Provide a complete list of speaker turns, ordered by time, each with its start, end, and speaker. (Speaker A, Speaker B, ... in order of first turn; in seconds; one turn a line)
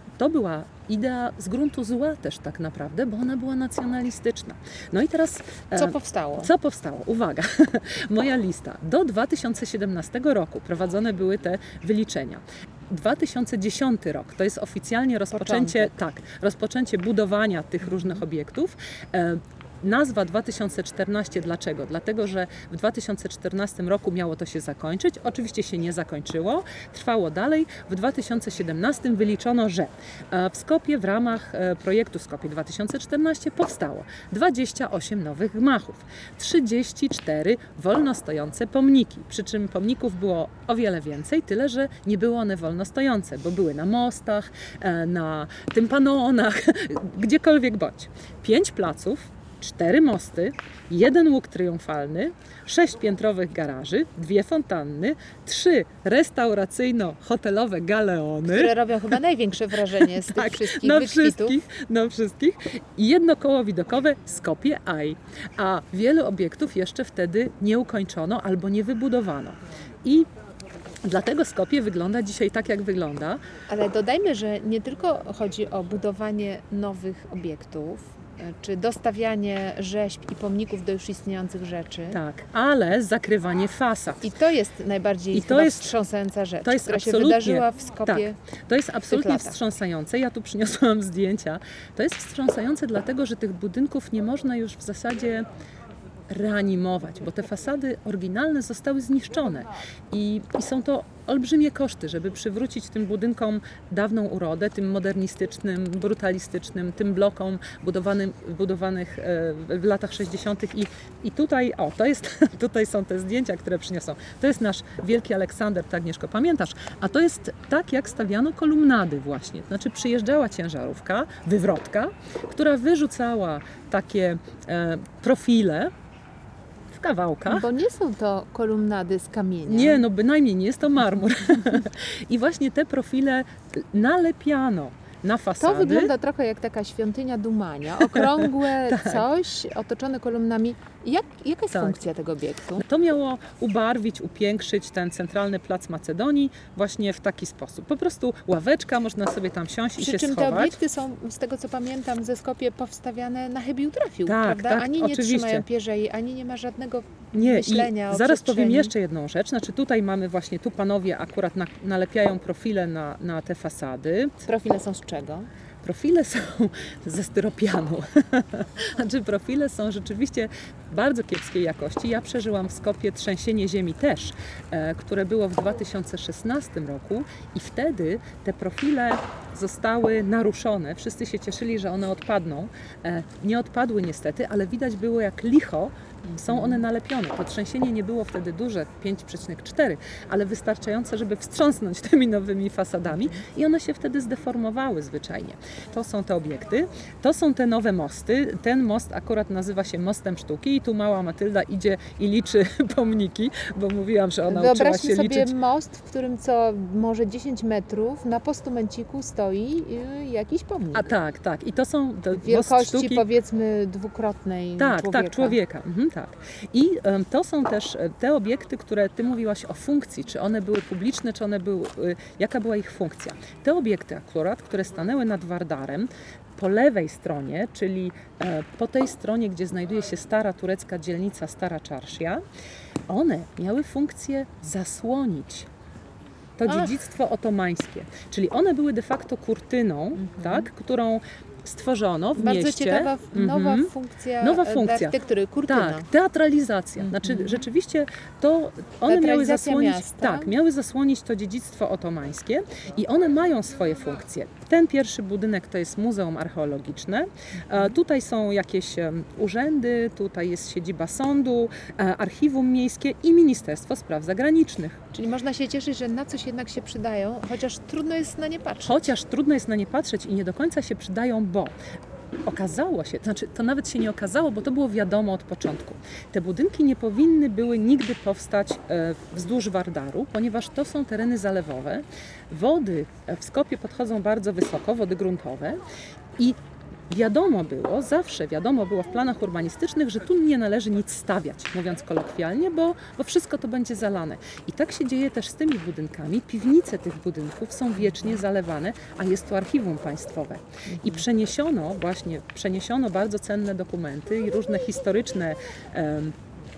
Speaker A: 0.2-58.8
Speaker B: 5.8-6.5
Speaker B: 15.3-15.9
Speaker B: 58.5-61.6
Speaker A: 59.9-70.3
Speaker A: 71.0-73.4
Speaker B: 73.7-82.2
Speaker A: 82.1-84.3
Speaker B: 84.2-88.4
Speaker A: 85.3-85.9
Speaker A: 86.6-95.5
Speaker B: 89.1-89.6
Speaker A: 96.3-125.9
Speaker A: 126.9-127.7
Speaker B: 127.5-130.1
Speaker A: 129.7-136.1
Speaker B: 135.6-142.8
Speaker A: 138.0-139.2
Speaker A: 141.7-142.1
Speaker A: 142.8-150.8
Speaker B: 150.0-158.9
Speaker A: 154.3-155.7
Speaker A: 157.3-164.4
Speaker B: 164.4-165.5
Speaker A: 165.8-205.5
Speaker B: 186.3-186.8
Speaker B: 204.5-211.1
Speaker A: 210.9-213.2
Speaker B: 212.4-215.6
Speaker A: 214.8-232.4
Speaker A: 233.1-235.7
Speaker A: 236.6-245.2
Speaker B: 236.7-237.0
Speaker B: 240.2-240.7
Speaker B: 242.4-246.1
Speaker A: 245.7-265.0
Speaker B: 247.1-247.6
Speaker B: 249.1-250.5
Speaker B: 265.1-269.0
Speaker A: 268.9-271.8
Speaker A: 272.4-285.8
Speaker A: 287.1-306.4